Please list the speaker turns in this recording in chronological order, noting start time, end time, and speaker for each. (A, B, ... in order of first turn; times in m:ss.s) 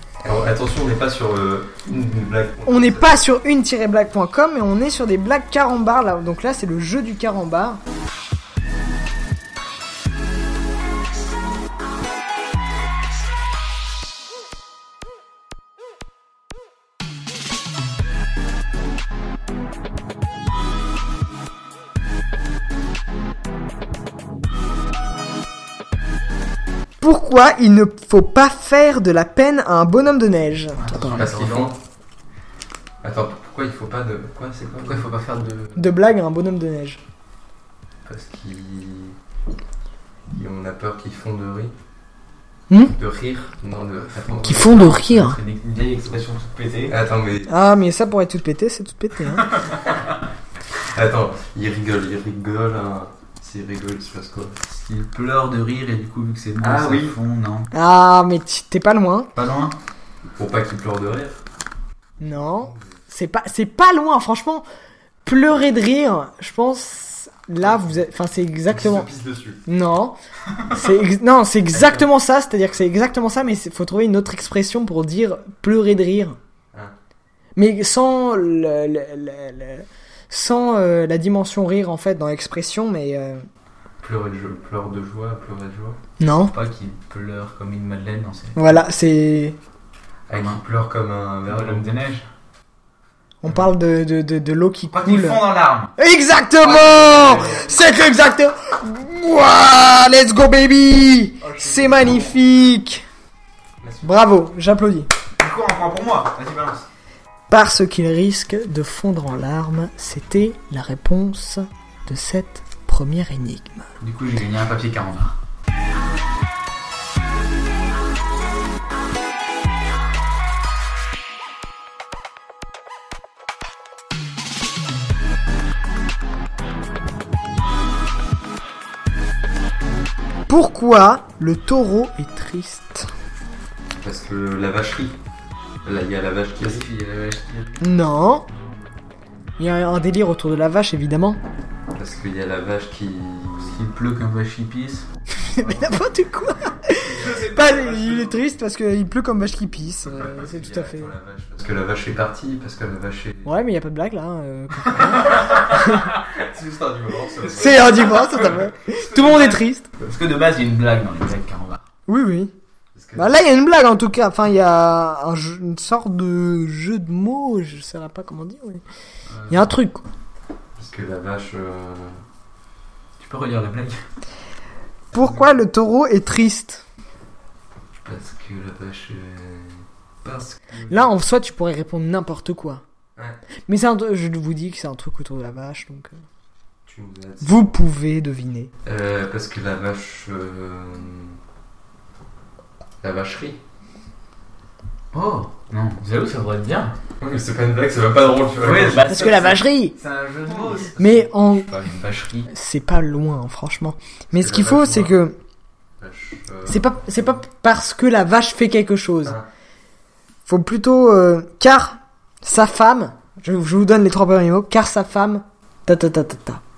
0:00.2-0:03.1 A
0:02.6-0:07.8 B
0:27.0-0:31.2 B
0:30.8-0:31.7 C
0:31.1-0:31.8 A
0:33.0-0:35.1 A
0:34.8-0:35.8 C
0:35.7-0:37.0 B
0:38.0-0:39.2 A
0:40.3-0:41.7 A
0:42.7-0:43.0 B
0:42.9-0:44.9 A
0:44.2-0:47.0 C
0:44.4-0:45.4 B
0:46.9-0:47.5 A
0:47.5-0:49.6 B
0:50.8-0:54.6 A
0:54.6-0:57.7 C
0:56.6-0:57.1 A
0:57.7-0:59.3 B
0:59.3-0:59.8 C
1:00.4-1:01.4 A
1:02.2-1:04.6 B
1:02.6-1:03.0 A
1:05.2-1:09.1 B
1:08.7-1:09.6 A
1:09.6-1:16.4 B
1:11.7-1:12.0 A
1:17.6-1:23.4 B
1:24.0-1:26.0 A
1:26.2-1:26.5 B
1:26.5-1:28.8 C
1:28.6-1:29.6 B
1:30.3-1:31.9 A
1:30.3-1:30.6 C
1:31.5-1:32.2 C
1:33.4-1:35.4 B
1:34.9-1:35.9 C
1:36.0-1:43.0 B
1:36.7-1:37.6 A
1:36.7-1:37.8 C
1:41.4-1:42.4 C
1:43.8-1:44.2 A
1:44.0-1:45.1 B
1:45.4-1:46.8 C
1:47.5-1:53.9 B
1:54.0-1:55.4 C
2:10.5-2:13.1 B
2:14.0-2:15.2 A
2:15.8-2:16.9 A
2:16.6-2:17.8 C
2:17.8-2:18.4 B
2:19.6-2:21.4 B
2:21.9-2:23.8 A
2:23.6-2:25.1 C
2:25.4-2:31.1 B
2:25.6-2:25.9 A
2:27.0-2:27.5 A
2:27.1-2:28.4 C
2:30.0-2:33.6 A
2:33.4-2:36.1 B
2:35.3-2:38.3 A
2:37.5-2:39.9 B
2:37.6-2:41.8 C
2:42.1-2:42.5 B
2:42.9-2:43.4 A
2:43.2-2:48.8 B
2:49.3-2:49.7 C
2:49.5-2:50.0 B
2:50.8-2:52.2 A
2:53.2-2:54.0 C
2:55.1-2:56.8 B
2:58.0-3:00.8 A
3:00.9-3:02.8 B
3:03.7-3:06.1 B
3:06.8-3:07.7 A
3:07.4-3:08.7 B
3:08.8-3:11.4 A
3:13.0-3:13.6 A
3:15.1-3:16.9 C
3:17.2-3:19.4 A
3:18.6-3:22.5 C
3:19.0-3:20.0 B
3:20.5-3:21.1 A
3:21.0-3:21.7 B
3:22.5-3:25.4 B
3:24.3-3:25.2 A
3:26.0-3:27.4 A
3:26.6-3:29.4 B
3:30.5-3:36.6 B